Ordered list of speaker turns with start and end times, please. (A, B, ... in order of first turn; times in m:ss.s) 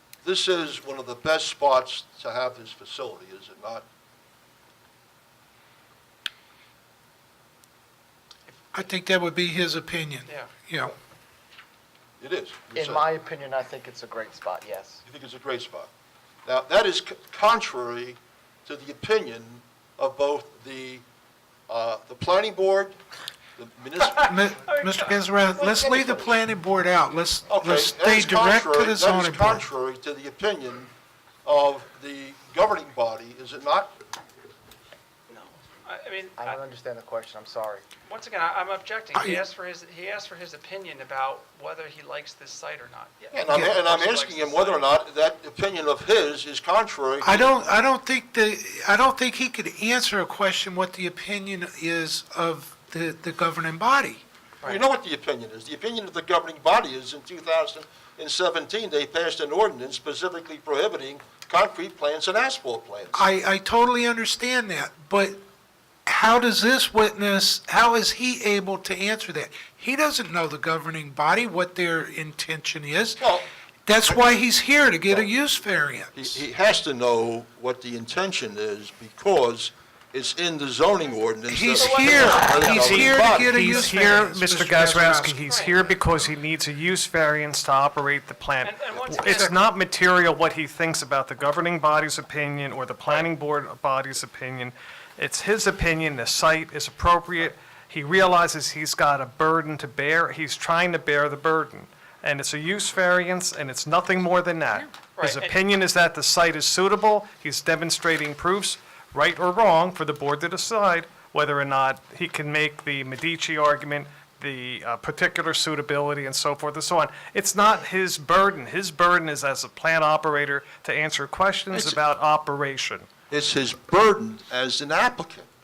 0:00.2-0:03.8 A
0:08.7-0:11.0 B
0:10.3-0:10.5 C
0:12.2-0:13.0 A
0:12.8-0:15.0 D
0:15.1-0:15.9 A
0:16.4-0:21.0 A
0:21.7-0:23.0 A
0:23.6-0:24.3 A
0:24.0-0:25.8 C
0:24.2-0:29.7 B
0:25.6-0:26.4 A
0:27.5-0:30.9 A
0:31.4-0:34.0 A
0:35.3-0:36.6 C
0:36.4-0:37.8 D
0:38.1-0:44.8 C
0:43.3-0:47.5 A
0:47.2-0:54.2 B
0:54.6-1:03.2 A
1:03.1-1:05.4 B
1:06.1-1:13.2 B
1:13.2-1:13.5 A
1:13.9-1:16.3 B
1:14.1-1:14.4 A
1:16.1-1:23.9 A
1:21.5-1:25.4 B
1:21.7-1:23.4 C
1:22.5-2:03.1 E
1:25.4-1:25.9 C
1:28.6-1:29.6 C
1:45.2-1:45.6 C
2:01.7-2:02.0 A
2:03.3-2:05.4 A